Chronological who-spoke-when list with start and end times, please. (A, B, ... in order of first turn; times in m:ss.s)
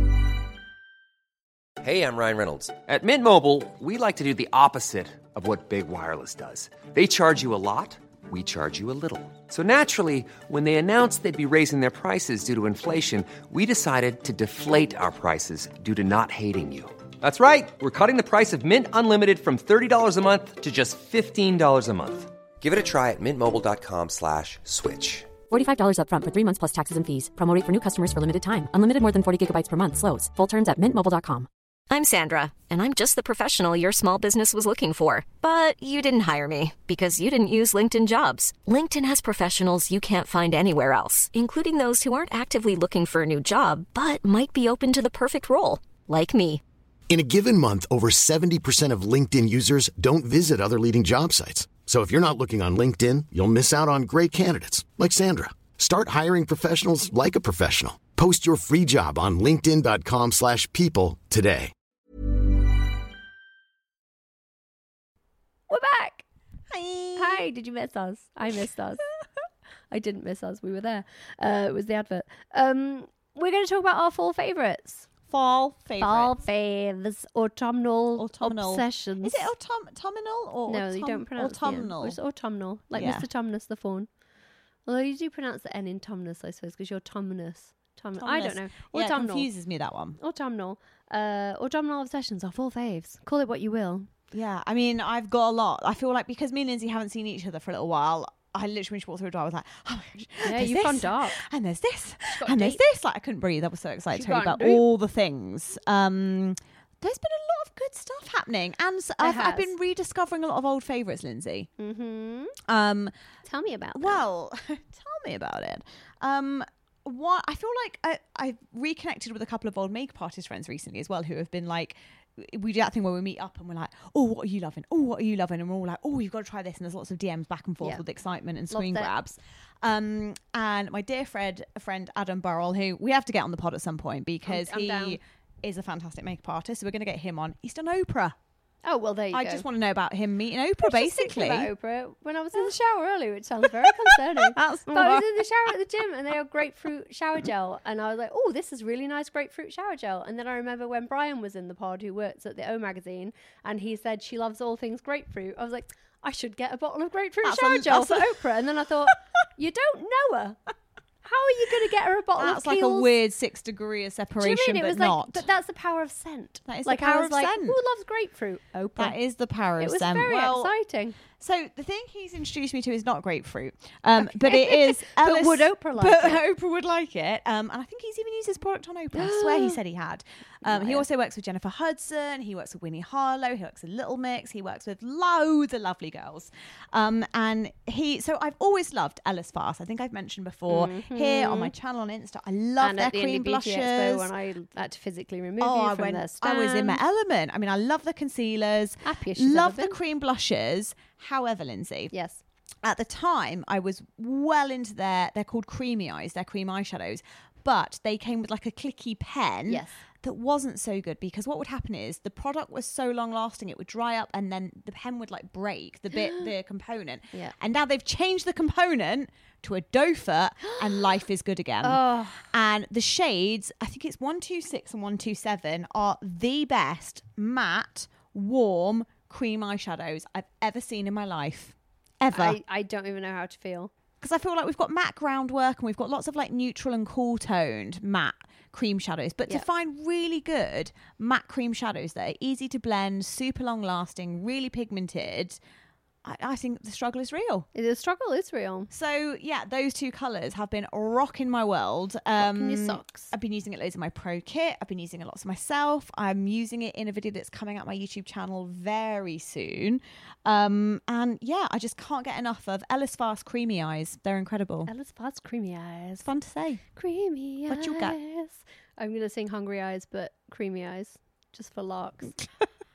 0:01.8-0:25.3 A
0:25.5-0:31.5 B
0:31.9-0:46.6 C
0:47.1-1:01.7 D
1:05.7-1:06.2 E
1:06.7-1:07.4 F
1:07.2-1:09.0 E
1:09.9-1:15.1 E
1:15.3-1:16.3 F
1:16.0-1:19.5 E
1:18.2-1:22.2 F
1:20.7-1:24.1 E
1:22.9-1:23.3 F
1:24.8-1:29.5 E
1:28.2-1:30.2 F
1:30.2-1:34.1 E
1:34.3-1:51.7 F
1:40.4-1:41.4 E
1:42.3-1:42.8 E
1:44.1-1:44.8 E
1:49.2-1:49.7 E
1:51.8-1:52.6 E
1:52.6-1:53.1 F
1:53.4-1:54.2 E
1:53.9-2:18.4 F
2:08.7-2:09.1 E
2:14.4-2:15.2 E
2:18.8-2:19.6 E
2:19.3-2:21.7 F
2:20.8-2:40.6 E
2:23.8-2:25.4 F
2:37.4-2:38.4 F
2:41.2-2:43.1 E
2:42.4-2:45.4 F
2:44.4-2:49.2 E
2:46.7-2:47.8 F
2:49.0-2:50.7 F
2:49.8-2:51.2 E
2:51.3-3:14.3 F
2:54.2-2:56.4 E
2:59.1-2:59.8 E
3:00.6-3:01.0 E
3:10.7-3:11.7 E
3:12.8-3:17.0 E
3:15.6-3:22.1 F
3:19.0-3:20.0 E
3:22.1-3:22.4 E
3:22.8-3:52.6 F
3:29.7-3:29.9 E
3:36.1-3:36.5 E
3:41.8-3:42.5 E
3:52.3-3:53.9 E
3:54.2-4:05.6 F
4:06.2-4:07.7 F
4:07.7-4:08.9 E
4:08.9-4:24.9 F
4:12.4-4:13.3 E
4:24.9-4:26.2 E
4:26.2-4:26.8 F
4:26.9-4:32.3 E
4:27.7-4:28.2 F